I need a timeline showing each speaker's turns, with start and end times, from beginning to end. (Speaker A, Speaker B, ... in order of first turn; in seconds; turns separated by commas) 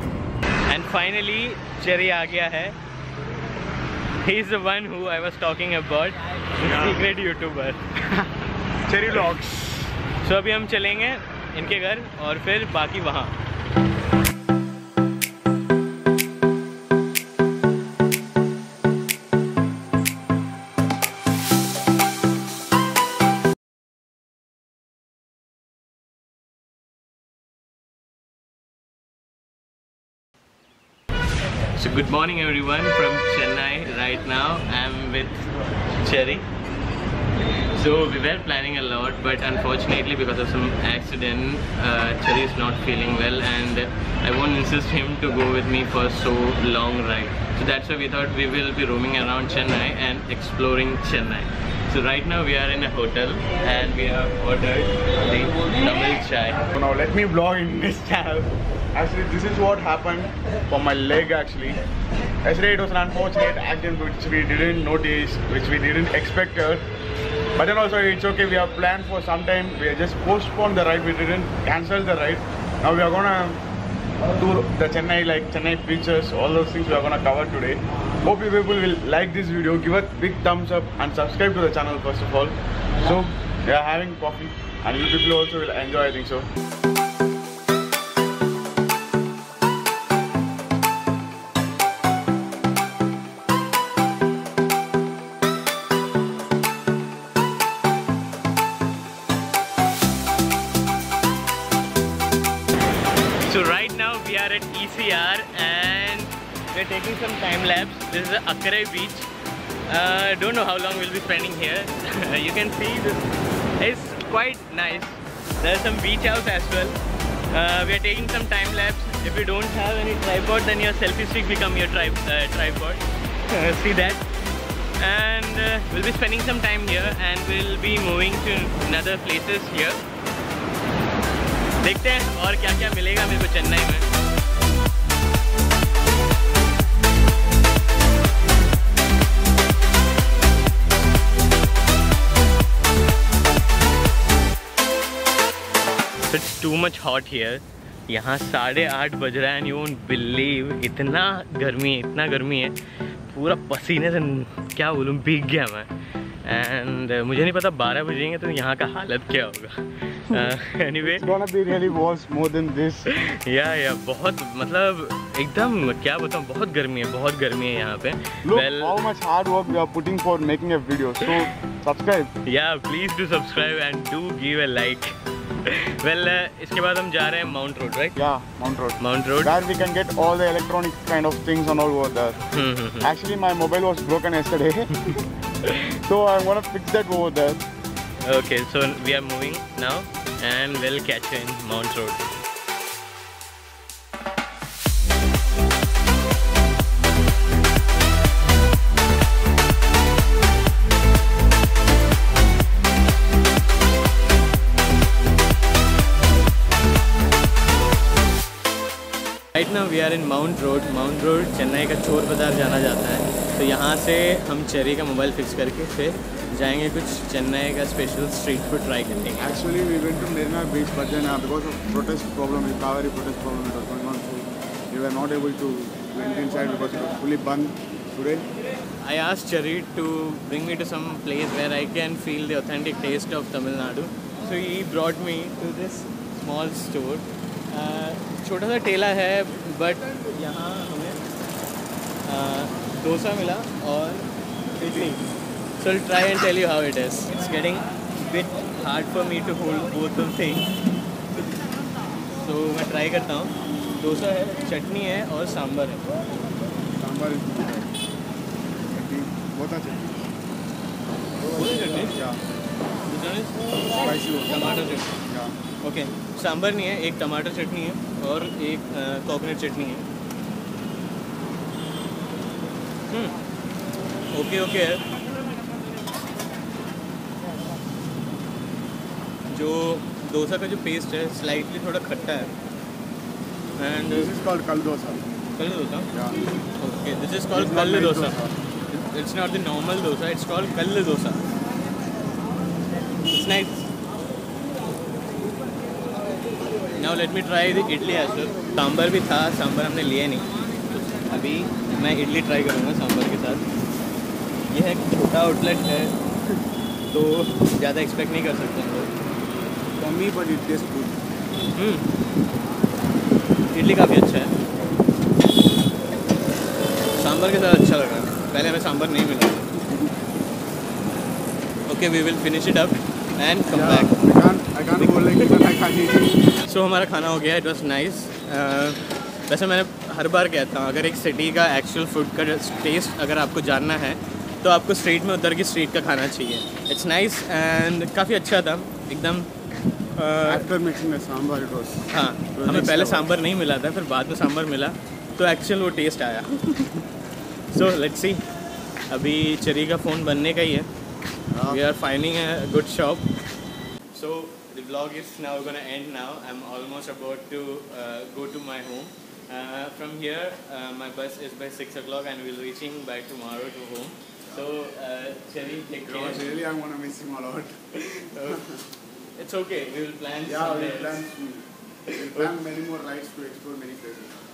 Speaker A: 0.7-2.8, Speaker A: 4.2-7.8, Speaker B: 6.7-7.0, Speaker B: 8.8-9.8, Speaker A: 10.2-13.4, Speaker A: 31.7-35.5, Speaker A: 36.0-36.5, Speaker A: 37.7-56.6, Speaker B: 56.6-61.8, Speaker B: 62.5-66.9, Speaker B: 67.5-73.6, Speaker B: 74.4-86.5, Speaker A: 103.5-109.3, Speaker A: 109.9-113.2, Speaker A: 113.8-124.3, Speaker A: 125.0-130.0, Speaker A: 131.8-134.1, Speaker A: 146.3-152.8, Speaker A: 153.3-155.9, Speaker A: 156.4-161.3, Speaker B: 161.0-163.1, Speaker A: 163.1-169.0, Speaker B: 168.4-172.3, Speaker A: 172.4-178.2, Speaker B: 178.2-182.4, Speaker A: 179.0-179.5, Speaker A: 182.5-183.1, Speaker B: 183.0-185.2, Speaker A: 185.6-185.9, Speaker B: 185.8-187.6, Speaker A: 188.2-192.2, Speaker A: 209.5-219.5, Speaker B: 219.4-228.5, Speaker A: 229.0-241.2, Speaker A: 242.2-245.2, Speaker A: 245.8-250.7, Speaker A: 252.3-256.0, Speaker B: 257.0-257.9, Speaker B: 258.9-260.3, Speaker A: 261.5-262.2, Speaker B: 261.6-262.4, Speaker A: 263.1-265.1, Speaker B: 263.9-265.6, Speaker A: 265.8-270.1, Speaker A: 274.3-275.0, Speaker A: 279.5-282.5, Speaker A: 283.8-284.3, Speaker B: 284.1-285.2, Speaker A: 285.6-286.1, Speaker B: 286.1-286.4, Speaker A: 286.8-291.4, Speaker B: 287.5-288.5, Speaker A: 293.2-293.9, Speaker A: 296.9-300.4, Speaker A: 301.3-303.6, Speaker A: 304.7-306.2, Speaker A: 307.1-309.1, Speaker B: 310.0-311.2, Speaker A: 311.7-312.1, Speaker A: 313.7-314.6, Speaker A: 317.1-319.6, Speaker A: 321.9-324.2, Speaker B: 323.7-326.5, Speaker A: 325.0-325.6, Speaker A: 326.6-339.5, Speaker A: 340.1-340.7, Speaker B: 340.4-343.3, Speaker A: 342.1-347.0, Speaker A: 347.7-348.4, Speaker A: 349.1-350.9, Speaker B: 351.5-351.8, Speaker A: 351.7-353.3, Speaker A: 354.1-366.5, Speaker B: 365.9-367.8, Speaker A: 367.9-368.6, Speaker B: 368.4-368.8, Speaker A: 369.4-371.2, Speaker B: 370.4-374.4, Speaker A: 372.1-372.5